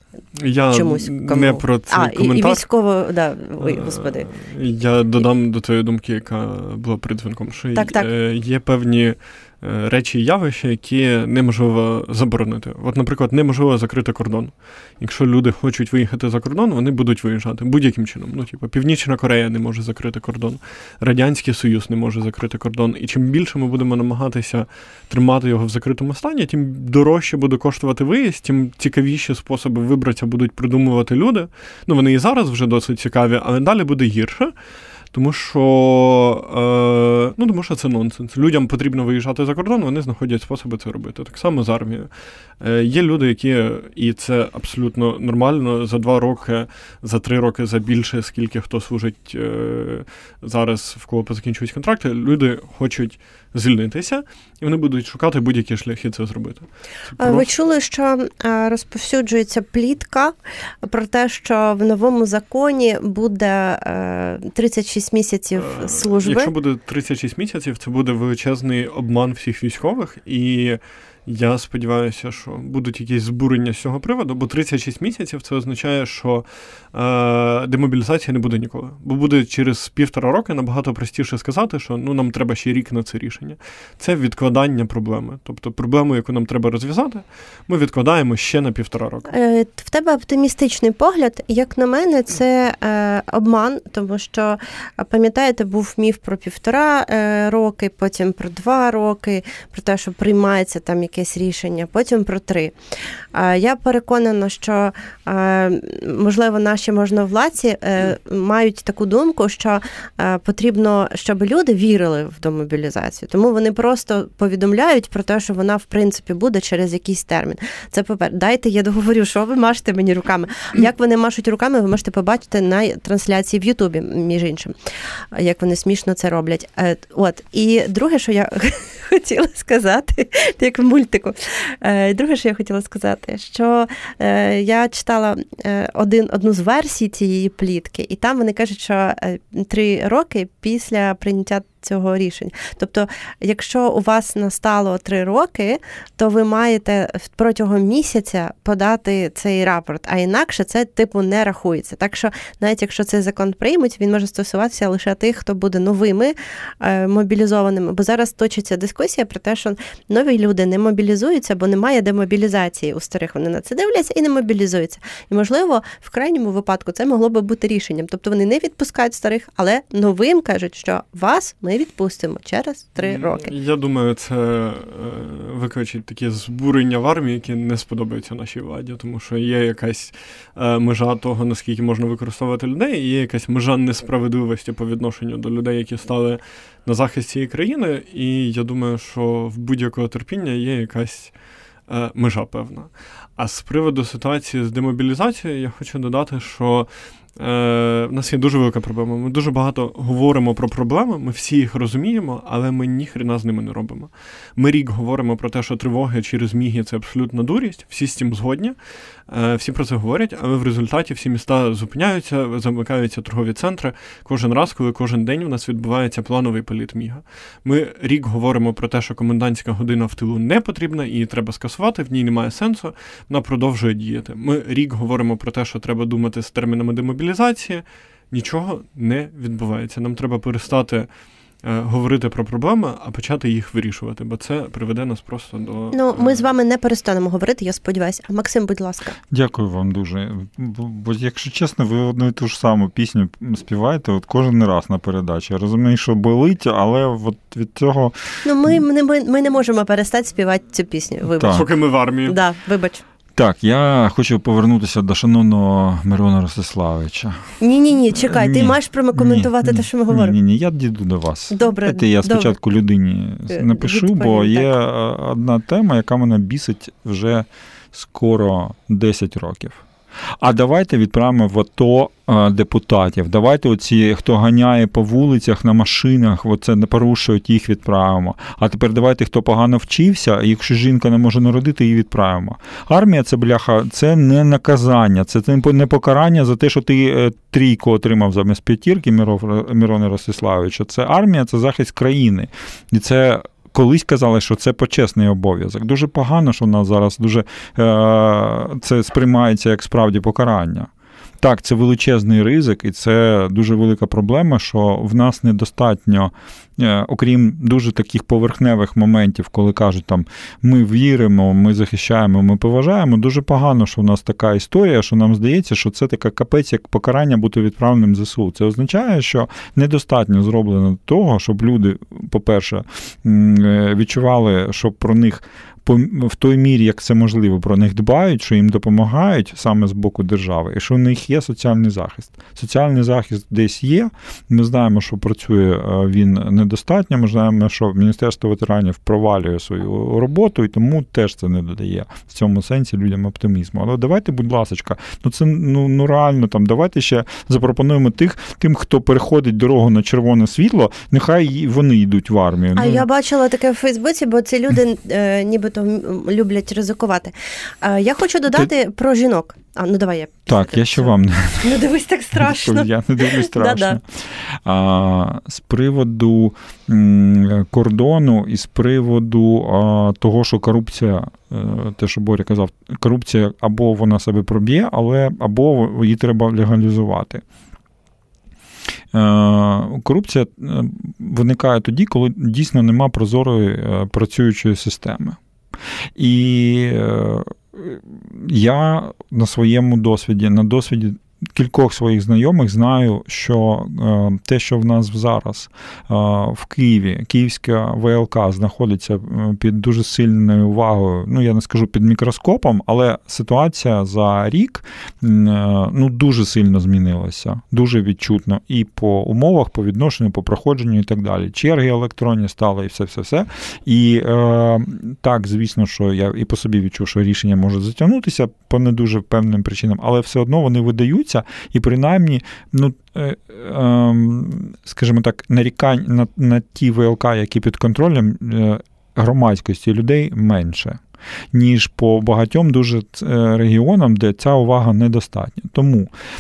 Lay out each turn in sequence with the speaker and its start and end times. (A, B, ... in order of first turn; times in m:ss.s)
0:00.4-0:02.6 A
0:00.7-0:04.3 B
0:03.6-0:34.5 A
0:07.8-0:08.1 B
0:35.1-0:57.5 A
0:57.2-1:06.5 B
1:05.6-1:29.3 A
1:29.3-1:42.8 B
1:43.3-2:04.8 B
2:05.3-2:53.5 B
2:53.0-3:11.3 A
3:11.9-3:28.8 A
3:29.3-3:51.1 A
3:51.6-3:56.5 A
3:55.9-3:59.2 B
3:59.3-4:08.8 C
4:08.4-4:11.7 B
4:11.4-4:11.6 C
4:11.5-4:12.4 A
4:12.3-4:13.0 B
4:13.4-4:17.5 C
4:17.6-4:20.4 B
4:18.2-4:29.8 C
4:21.5-4:22.6 B
4:23.5-4:24.7 B
4:30.4-5:53.1 C
5:52.8-6:04.0 B
6:00.5-6:01.8 C
6:02.4-6:17.4 C
6:19.1-6:25.4 C
6:26.2-7:11.0 C
7:11.5-7:16.1 C